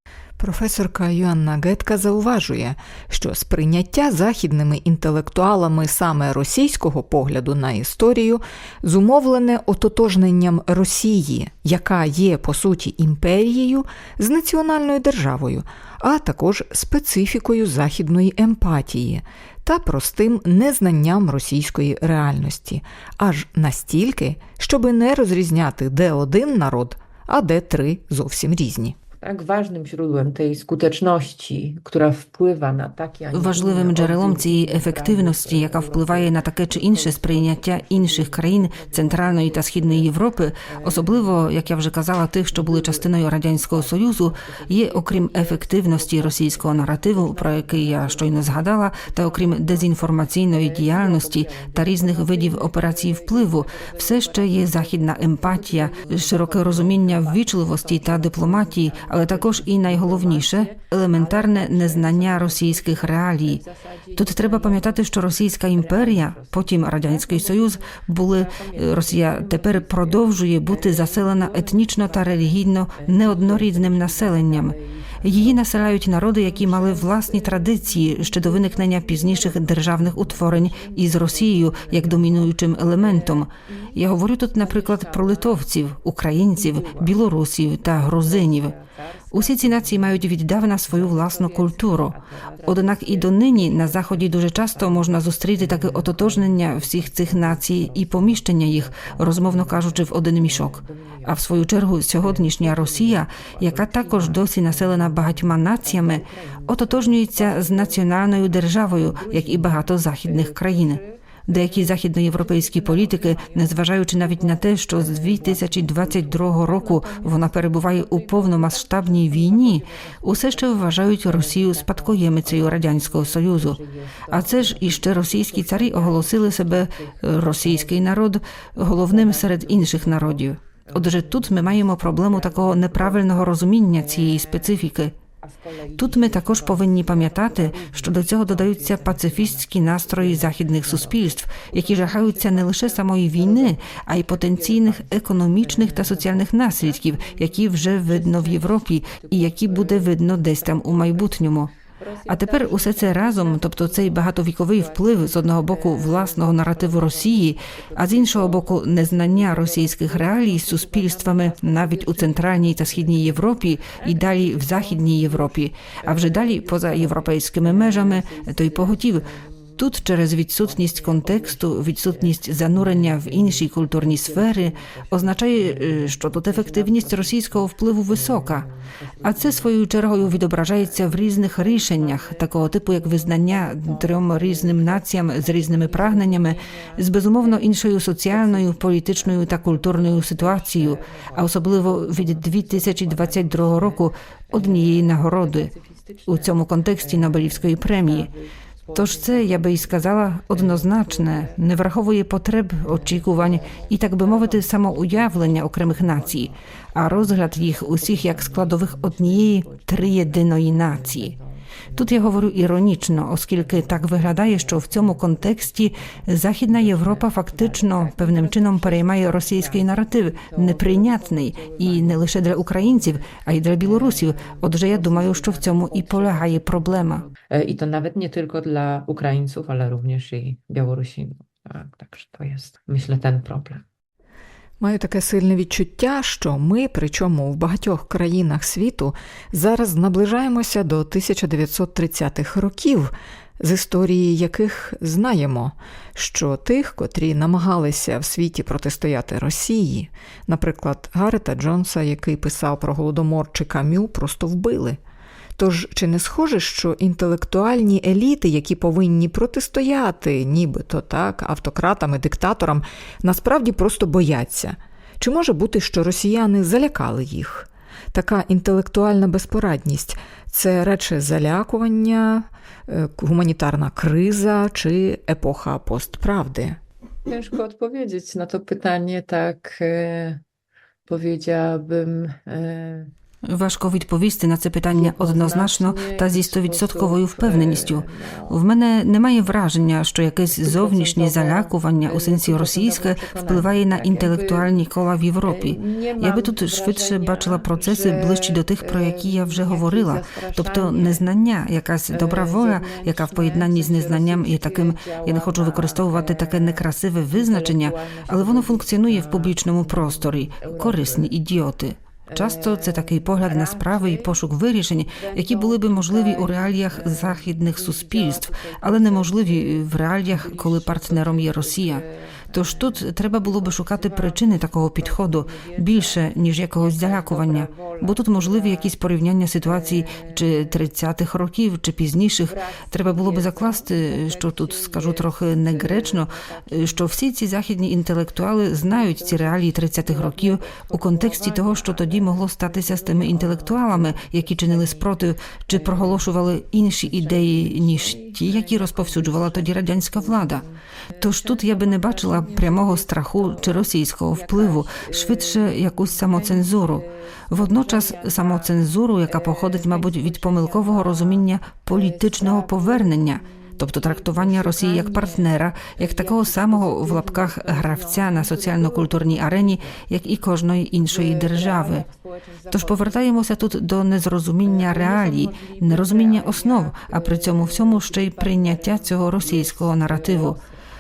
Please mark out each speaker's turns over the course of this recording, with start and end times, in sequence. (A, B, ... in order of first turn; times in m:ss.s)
0:00.4-0:29.0 A
0:29.2-1:25.7 B
0:33.3-1:03.6 C
1:04.2-1:28.7 C
1:26.5-1:27.2 B
1:27.9-1:30.3 B
1:29.3-2:03.8 C
1:30.8-1:41.5 B
1:42.2-2:08.0 B
2:04.3-2:15.1 C
2:08.9-2:14.8 B
2:15.4-2:50.0 B
2:16.0-2:31.7 C
2:32.3-2:49.2 C
2:49.8-2:58.7 C
2:50.6-3:21.7 B
2:59.2-3:15.7 C
3:16.3-3:18.3 C
3:18.9-3:31.3 C
3:22.8-3:53.8 B
3:31.9-3:47.2 C
3:54.8-4:15.0 A
4:15.6-4:36.8 A
4:37.3-4:40.4 B
4:41.0-4:43.1 B
4:43.4-5:50.6 C
4:44.9-4:48.6 B
4:50.5-4:54.8 B
4:55.4-5:01.3 B
5:02.1-5:11.3 B
5:12.3-5:14.5 B
5:15.1-5:29.0 B
5:29.6-5:30.9 B
5:32.4-5:37.1 B
5:38.8-5:46.4 B
5:47.0-6:10.1 B
5:51.2-6:12.0 C
6:11.0-6:13.3 B
6:12.7-6:20.6 C
6:14.6-6:20.8 B